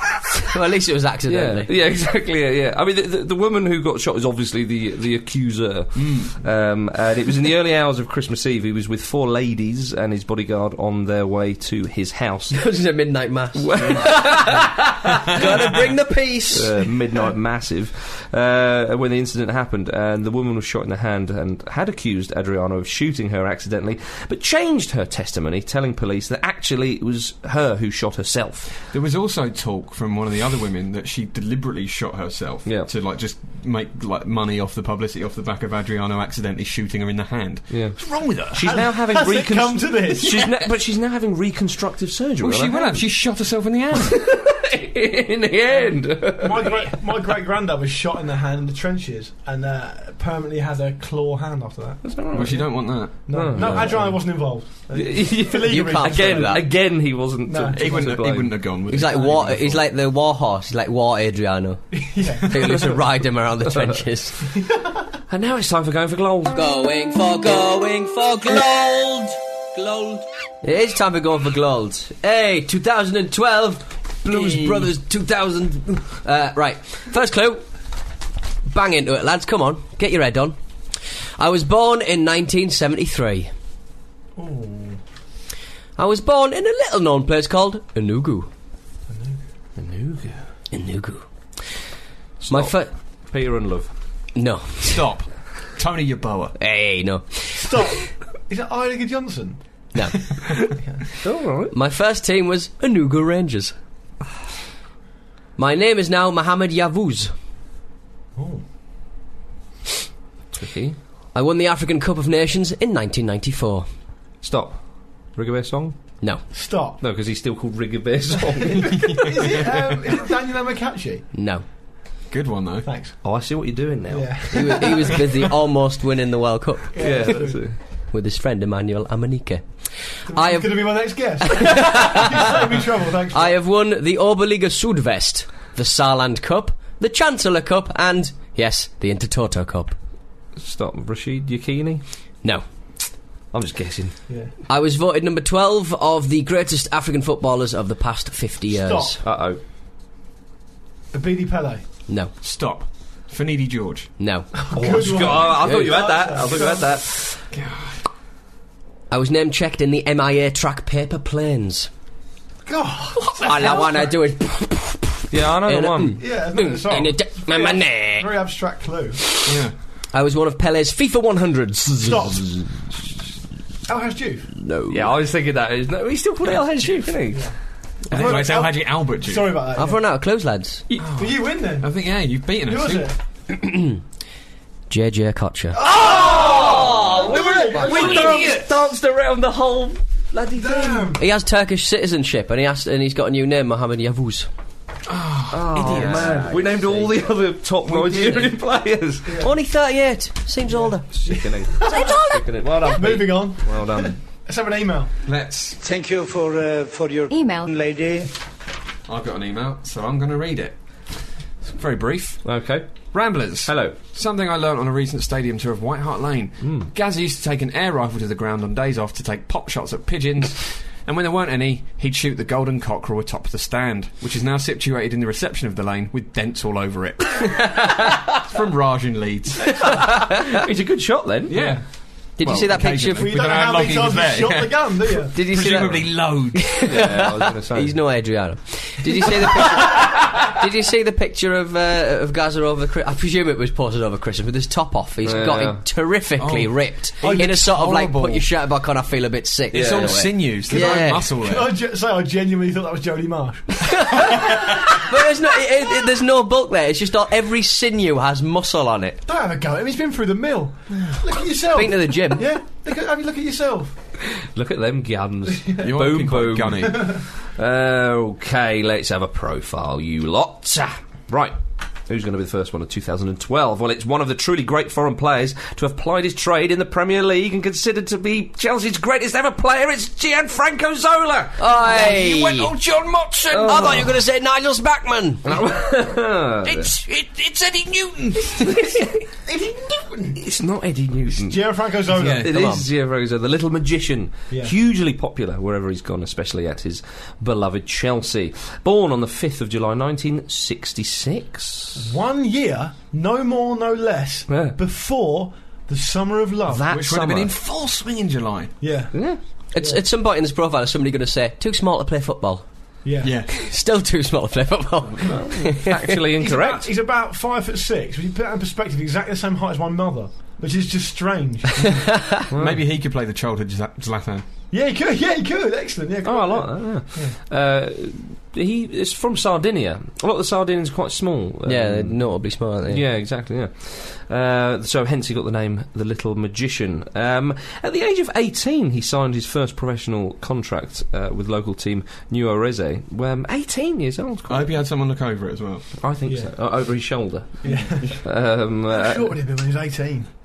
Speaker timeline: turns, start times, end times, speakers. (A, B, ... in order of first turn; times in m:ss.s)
0:00.5-0:01.7 A
0:01.3-0:12.6 B
0:05.9-0:06.4 C
0:12.5-0:16.8 A
0:13.5-0:15.4 B
0:13.7-0:14.5 C
0:16.5-0:28.8 B
0:28.9-0:38.7 C
0:32.6-0:32.9 B
0:37.7-0:43.0 B
0:38.6-0:40.7 D
0:42.4-0:44.2 C
0:43.9-0:47.0 B
0:45.7-0:52.7 D
0:52.0-0:58.7 B
0:52.3-0:53.9 C
0:53.2-0:56.7 D
0:55.7-0:56.6 A
0:57.5-0:58.1 D
0:57.7-0:59.9 C
0:58.9-1:04.4 A
1:01.9-1:03.0 D
1:04.5-1:05.0 D
1:05.3-1:06.6 B
1:06.5-1:17.6 A
1:14.4-1:14.9 B
1:18.7-1:20.6 A
1:21.4-1:23.5 A
1:24.4-1:25.0 D
1:26.0-1:28.5 A
1:29.1-1:29.4 D
1:29.8-1:30.4 B
1:30.7-1:31.3 A
1:32.4-1:33.9 B
1:32.5-1:32.9 A
1:34.3-1:35.1 A
1:34.8-1:36.5 C
1:36.6-1:37.8 A
1:37.6-1:39.6 D
1:39.9-1:40.5 A
1:41.2-1:41.7 B
1:41.7-1:43.7 A
1:45.6-1:47.3 A
1:48.4-1:48.6 D
1:50.5-1:51.0 B
1:51.3-1:53.9 A
1:54.4-1:56.1 B
1:56.5-1:57.0 D
1:57.0-1:59.3 B
1:58.6-2:01.3 D
1:58.8-1:59.8 C
2:01.3-2:01.6 A
2:02.3-2:02.9 C
2:02.8-2:03.2 D
2:03.2-2:04.9 B
2:04.1-2:05.3 D
2:04.5-2:12.2 A
2:06.9-2:07.6 D
2:07.0-2:07.8 B
2:10.3-2:13.6 D
2:13.3-2:20.0 A
2:20.6-2:22.0 B
2:23.5-2:24.2 B
2:24.7-2:29.2 A
2:28.7-2:29.2 D
2:29.2-2:29.6 B
2:31.1-2:31.8 D
2:32.1-2:32.3 A
2:32.4-2:34.1 C
2:34.2-2:36.0 A
2:34.6-2:37.0 D
2:34.7-2:37.2 B
2:37.5-2:38.0 C
2:39.1-2:41.9 A
2:42.6-2:44.1 D
2:43.4-2:48.3 A
2:45.3-2:46.2 B
2:46.2-2:49.2 D
2:49.4-2:49.7 C
2:50.1-2:52.7 A
2:52.0-2:52.8 D
2:53.9-2:54.5 D
2:54.6-2:55.1 A
2:54.9-2:57.5 B
2:57.3-2:57.6 D
2:58.1-3:00.0 D
2:58.1-2:59.6 C
2:59.7-3:00.8 A
3:01.0-3:03.1 C
3:01.2-3:03.2 D
3:03.5-3:04.0 A
3:04.9-3:05.8 A
3:05.7-3:08.6 D
3:05.9-3:11.1 B
3:06.5-3:08.6 A
3:07.7-3:08.5 C
3:10.6-3:11.2 D
3:11.2-3:14.5 A
3:15.0-3:16.6 C
3:15.5-3:19.5 B
3:15.8-3:17.1 A
3:17.9-3:18.5 C
3:19.2-3:19.5 D
3:19.4-3:22.4 A
3:20.7-3:22.2 D
3:21.1-3:24.2 B
3:22.8-3:25.1 D
3:25.2-3:25.8 C
3:25.8-3:28.3 E
3:29.0-3:50.0 C
3:32.4-3:34.0 B
3:36.6-3:36.9 B
3:50.0-3:51.8 B
3:51.5-3:56.8 C
3:52.4-3:53.4 A
3:53.1-3:55.3 D
3:55.3-4:11.3 A
3:56.8-3:58.0 B
4:05.2-4:05.8 B
4:06.4-4:08.4 C
4:07.2-4:07.7 D
4:09.7-4:11.7 C
4:09.7-4:10.5 B
4:10.7-4:14.9 D
4:14.0-4:19.2 A
4:19.2-4:23.9 D
4:21.5-4:22.4 A
4:24.4-4:42.2 B
4:25.5-4:25.9 D
4:25.8-4:27.2 C
4:26.8-4:27.2 D
4:41.6-4:42.7 A
4:41.8-4:43.8 C
4:43.4-4:45.6 A
4:43.5-4:44.1 B
4:45.4-4:46.9 B
4:46.6-4:47.4 A
4:47.5-4:48.0 C
4:48.4-4:49.2 B
4:49.4-4:50.4 D
4:50.4-5:02.0 B
4:51.3-4:52.5 D
4:52.2-4:52.5 C
4:52.4-4:52.8 A
5:02.0-5:06.9 D
5:04.5-5:04.8 B
5:06.7-5:07.5 B
5:06.9-5:08.8 C
5:08.8-5:09.2 D
5:09.1-5:09.4 B
5:09.7-5:12.9 A
5:13.0-5:13.4 D
5:13.2-5:13.5 C
5:13.5-5:16.2 A
5:15.1-5:15.4 C
5:15.2-5:16.9 B
5:16.4-5:22.0 D
5:22.5-5:22.8 B
5:22.5-5:24.4 C
5:24.7-5:27.4 D
5:26.2-5:44.8 B
5:31.6-5:33.0 A
5:44.5-5:46.0 C
5:46.0-5:49.3 B
5:46.3-5:46.5 D
5:47.6-5:48.3 D
5:47.6-5:48.2 C
5:48.9-5:50.3 D